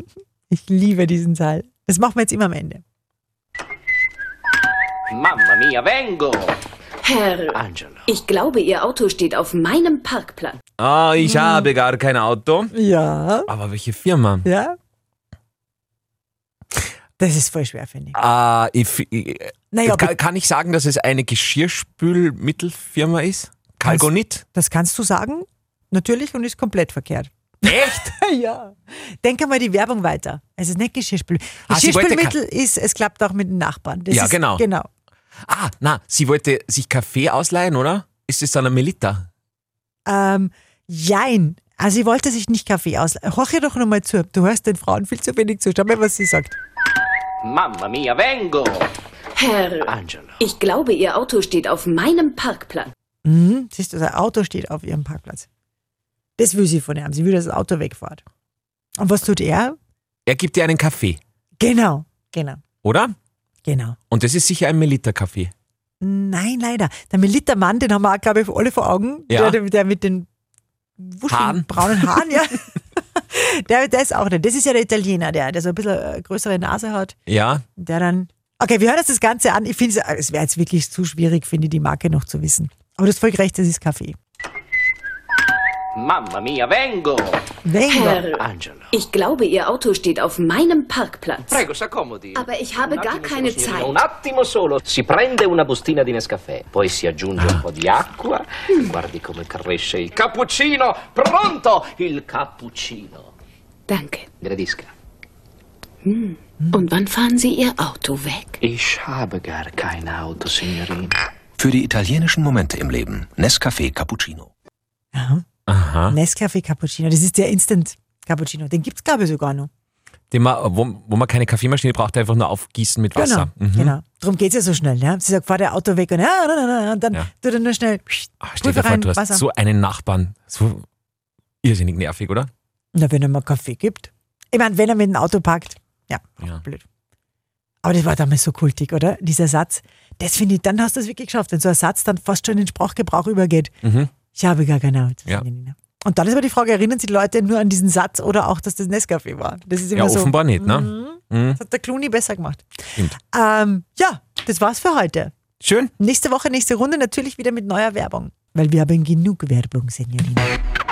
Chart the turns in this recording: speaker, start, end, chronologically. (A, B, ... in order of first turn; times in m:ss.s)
0:00.5-0:02.8 A
0:05.1-0:06.6 B
0:07.0-0:10.6 C
0:07.5-0:08.1 B
0:10.8-0:12.7 D
0:11.2-0:11.7 A
0:12.7-0:13.5 A
0:13.5-0:14.5 D
0:14.4-0:14.7 A
0:17.2-0:18.2 A
0:18.1-0:24.4 D
0:19.7-0:20.1 A
0:23.8-0:34.9 A
0:27.6-0:28.1 D
0:31.7-0:32.4 D
0:34.1-0:34.6 D
0:35.5-0:39.3 D
0:40.0-0:46.6 A
0:47.4-0:48.9 B
0:49.4-0:52.9 C
0:49.8-0:50.4 B
0:53.2-0:55.5 A
0:56.4-0:58.2 A
0:59.0-0:59.8 A
1:00.2-1:01.2 D
1:01.6-1:02.6 A
1:02.8-1:03.1 D
1:03.6-1:04.0 A
1:04.1-1:05.5 D
1:06.0-1:10.3 A
1:09.3-1:09.6 D
1:11.0-1:17.1 A
1:11.3-1:12.3 D
1:17.3-1:17.6 D
1:17.7-1:24.2 A
1:26.0-1:27.4 B
1:27.6-1:28.2 A
1:27.9-1:31.6 C
1:28.3-1:28.9 B
1:31.4-1:43.3 B
1:32.3-1:34.0 C
1:43.9-1:44.3 C
1:44.4-1:44.9 B
1:46.0-1:48.6 C
1:48.6-1:51.1 B
1:51.6-1:54.5 E
1:55.1-1:55.4 A
1:55.7-1:56.2 D
1:56.1-1:59.7 A
2:00.3-2:03.9 D
2:03.1-2:09.4 A
2:08.4-2:10.8 D
2:11.6-2:12.5 D
2:12.9-2:16.8 A
2:17.8-2:23.7 A
2:23.8-2:24.1 D
2:24.3-2:35.3 A
2:29.9-2:31.6 D
2:35.6-2:35.9 D
2:36.0-2:40.5 A